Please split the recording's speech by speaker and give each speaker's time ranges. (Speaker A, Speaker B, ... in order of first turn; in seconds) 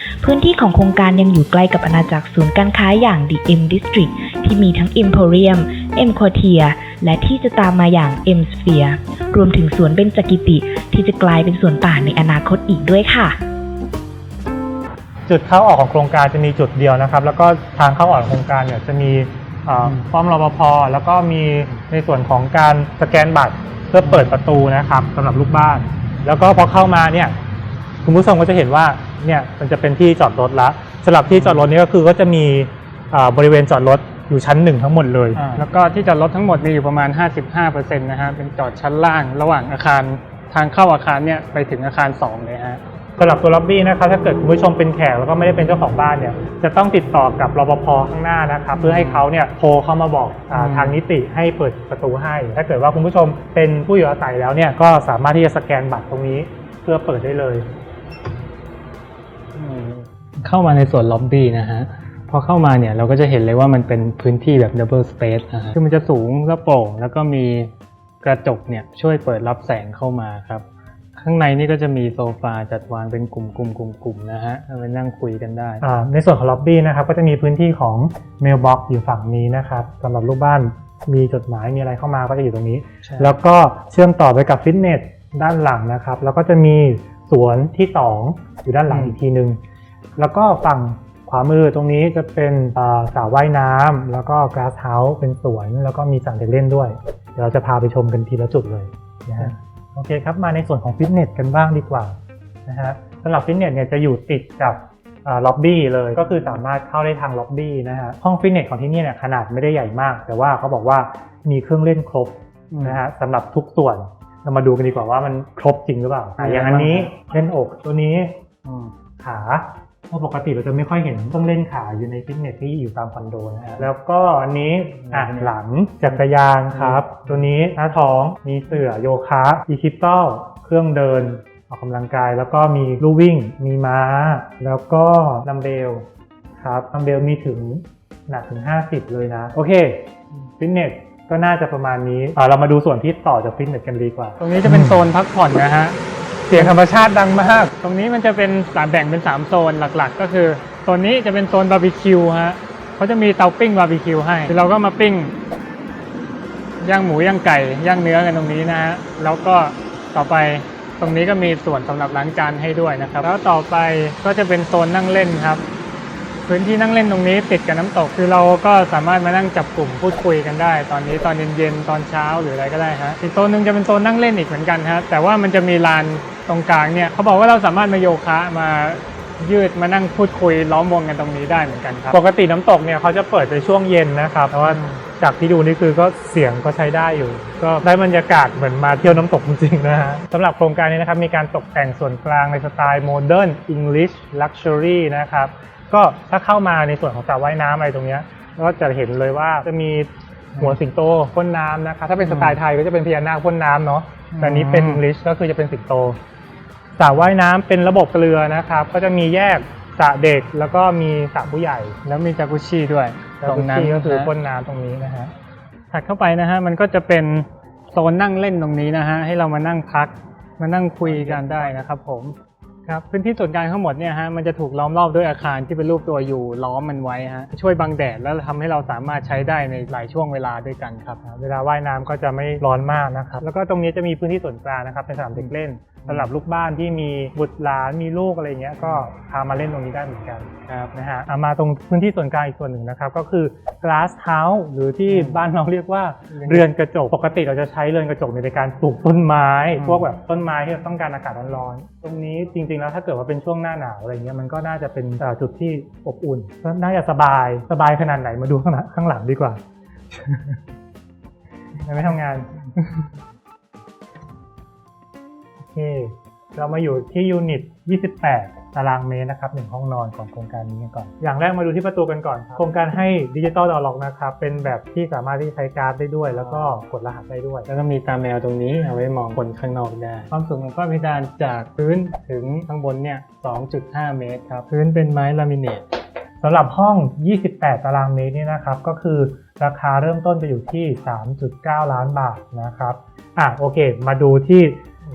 Speaker A: 0.2-13.4
Speaker B: 15.3-27.4, 28.0-35.6, 43.2-57.7, 75.8-89.6, 90.2-118.3, 119.2-136.1, 136.6-145.1, 146.5-147.7, 182.1-206.2, 206.9-212.0, 213.4-215.3, 221.0-221.8, 231.2-259.6, 260.1-260.6, 261.8-262.6, 265.6-277.7, 286.4-294.8
Speaker C: 19.8-20.1, 24.0-24.4, 31.2-31.7, 35.4-42.8, 48.7-49.3, 50.5-51.0, 59.5-70.7, 71.2-75.8, 83.0-83.4, 88.9-89.2, 106.2-106.5, 112.7-113.0, 116.4-117.1, 118.6-118.9, 125.0-125.5, 126.7-127.3, 144.4-146.0, 146.5-146.8, 147.8-155.3, 156.8-165.6, 166.5-182.2, 184.6-185.1, 202.2-202.6, 204.3-205.0, 212.0-214.3, 215.9-231.2, 240.7-240.9, 245.1-245.4, 246.3-246.7, 249.8-250.1, 276.3-276.8, 277.7-285.8